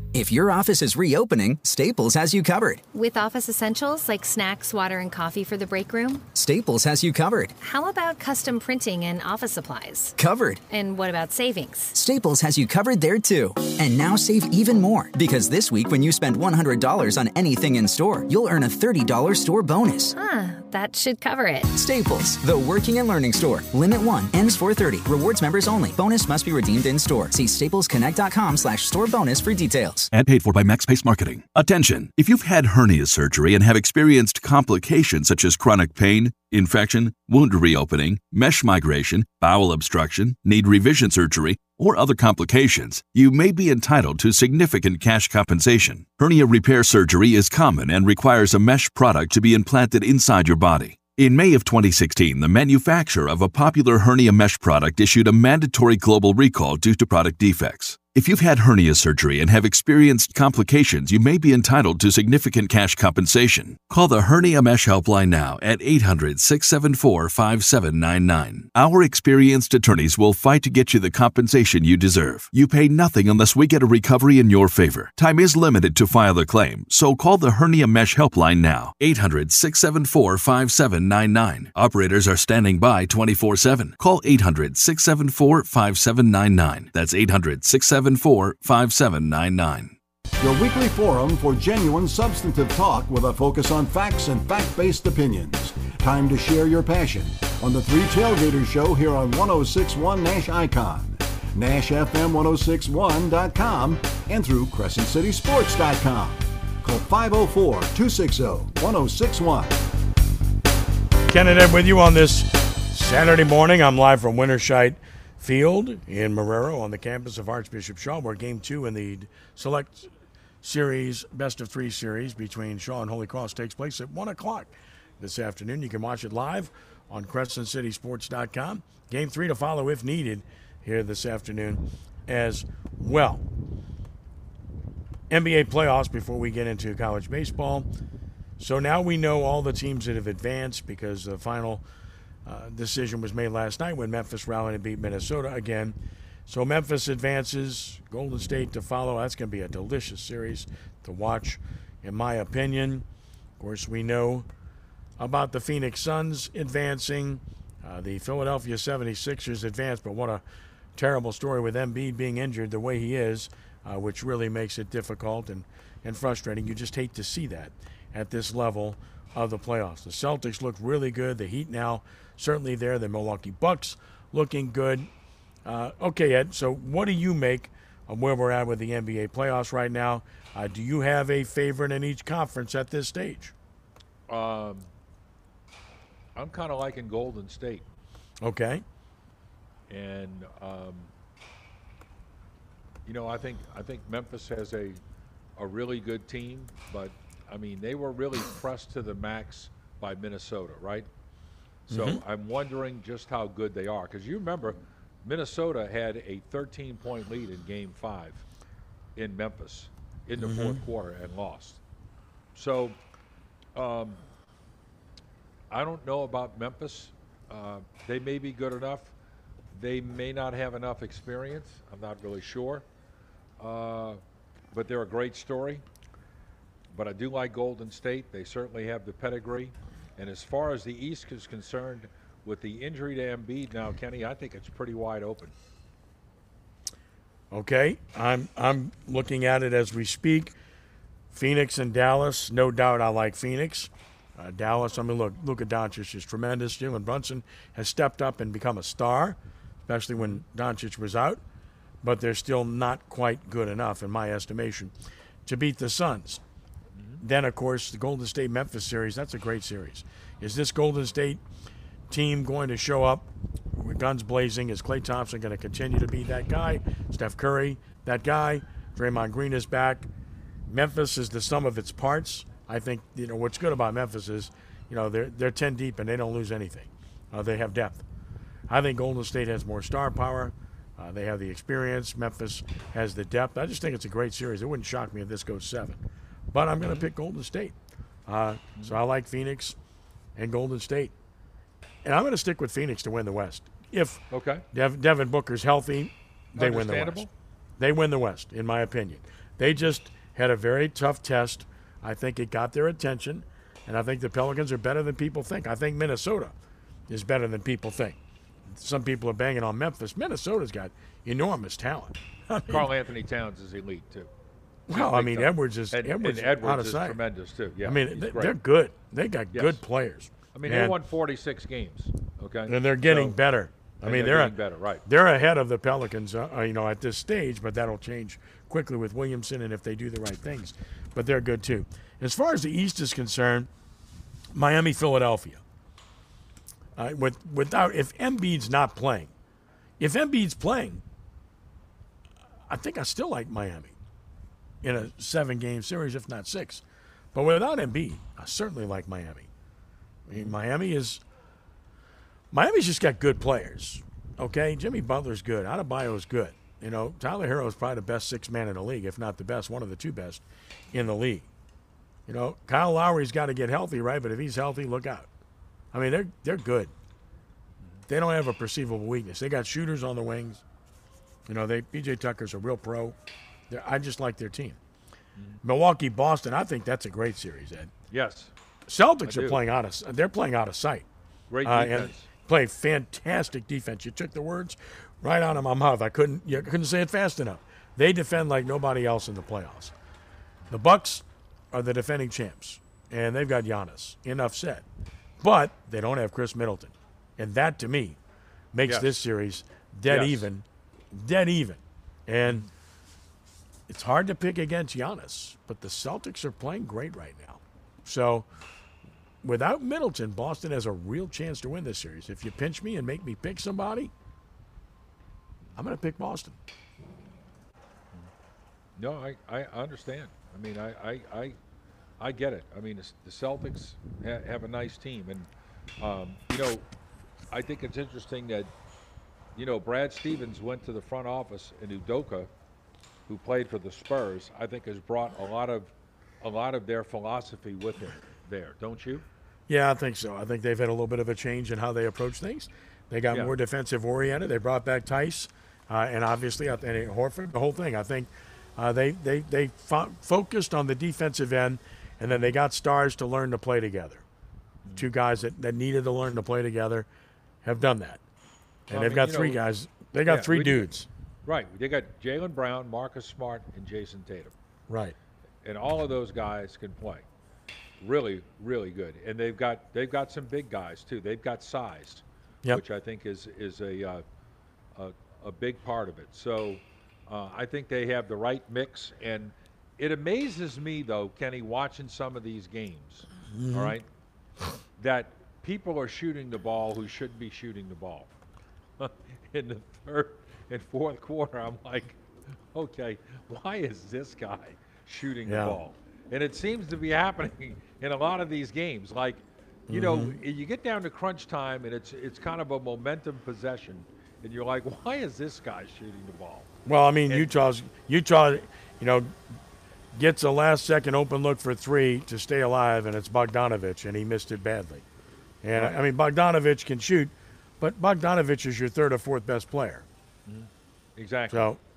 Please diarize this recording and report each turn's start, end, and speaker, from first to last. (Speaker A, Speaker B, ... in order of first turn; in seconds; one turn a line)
Speaker A: 0.1-2.8
Speaker B: 2.9-6.3
Speaker A: 6.3-7.6
Speaker B: 7.6-10.2
Speaker A: 10.2-10.6
Speaker B: 10.7-11.9
Speaker A: 11.9-20.1
Speaker B: 20.2-21.7
Speaker A: 21.8-30.1
Speaker C: 30.1-90.0
Speaker D: 90.4-109.8
Speaker E: 111.3-120.1
Speaker E: 120.6-133.4
Speaker E: 135.3-137.9
Speaker E: 138.6-141.8
Speaker E: 142.4-153.1
Speaker E: 153.6-154.5
Speaker E: 155.2-160.4
Speaker E: 160.9-175.1
Speaker E: 175.7-183.5
Speaker F: 184.3-184.9
Speaker F: 186.4-187.9
Speaker E: 188.4-188.8
Speaker F: 189.9-191.1
Speaker F: 193.1-195.0
Speaker F: 195.6-201.1
Speaker F: 201.9-208.4
Speaker E: 201.9-202.2
Speaker F: 209.2-211.8
Speaker E: 210.4-210.8
Speaker F: 212.6-213.0
Speaker F: 213.8-214.2
Speaker F: 215.7-219.1
Speaker F: 219.7-222.8
Speaker F: 223.6-224.2
Speaker F: 224.7-225.8
Speaker F: 226.9-235.5
Speaker E: 237.5-240.6
Speaker E: 241.3-251.4
Speaker F: 250.2-250.4
Speaker E: 252.0-254.9
Speaker E: 255.5-256.4
Speaker F: 256.9-257.2
Speaker E: 257.2-261.4
Speaker E: 262.1-270.1
Speaker E: 270.7-278.0
Speaker E: 278.7-286.0
Speaker E: 286.5-287.7
Speaker F: 286.8-287.1
Speaker E: 288.3-289.8
Speaker E: 290.4-291.1
Speaker E: 292.0-294.2
Speaker F: 294.3-294.6
Speaker E: 294.7-297.3
Speaker F: 296.6-297.3
Speaker E: 297.8-306.6
Speaker E: 307.1-308.2
Speaker E: 308.7-312.9
Speaker F: 312.7-314.3
Speaker E: 314.9-317.2
Speaker F: 314.9-318.6
Speaker E: 317.8-321.0
Speaker F: 319.5-319.8
Speaker F: 320.5-323.4
Speaker E: 322.7-333.7
Speaker F: 324.0-325.0
Speaker E: 334.5-335.6
Speaker E: 337.0-339.3
Speaker E: 340.0-341.0
Speaker E: 342.7-344.0
Speaker E: 344.8-346.8
Speaker E: 347.3-349.5
Speaker E: 350.3-351.2
Speaker E: 352.5-361.5
Speaker E: 362.3-365.3
Speaker E: 365.9-366.9
Speaker E: 368.1-370.6
Speaker E: 371.5-373.2
Speaker E: 373.7-374.8
Speaker E: 375.6-377.9
Speaker F: 378.1-378.5
Speaker E: 378.9-381.1
Speaker F: 379.3-379.6
Speaker F: 381.5-382.3
Speaker E: 381.6-389.9
Speaker E: 390.7-394.9
Speaker E: 395.4-398.2
Speaker E: 398.7-402.7
Speaker F: 398.9-399.1
Speaker F: 400.1-400.5
Speaker F: 402.4-402.7
Speaker E: 403.9-408.5
Speaker E: 409.4-414.1
Speaker E: 415.8-416.6
Speaker F: 419.0-421.6
Speaker F: 422.2-425.5
Speaker F: 426.0-426.9
Speaker F: 427.5-428.7
Speaker F: 429.6-432.5
Speaker F: 433.3-439.2
Speaker E: 439.7-454.2
Speaker E: 454.9-457.1
Speaker E: 457.6-458.2
Speaker E: 458.9-461.1
Speaker F: 458.9-459.6
Speaker F: 460.3-460.9
Speaker F: 461.4-464.5
Speaker E: 464.9-465.1
Speaker F: 465.6-467.2
Speaker F: 468.0-474.2
Speaker F: 475.0-484.1
Speaker E: 483.5-483.9
Speaker F: 485.0-488.3
Speaker F: 489.0-492.2
Speaker F: 492.7-506.7
Speaker E: 495.4-495.8
Speaker E: 499.9-500.4
Speaker E: 506.9-509.3
Speaker E: 510.1-515.0
Speaker E: 515.6-520.1
Speaker F: 520.5-521.8
Speaker E: 521.5-521.8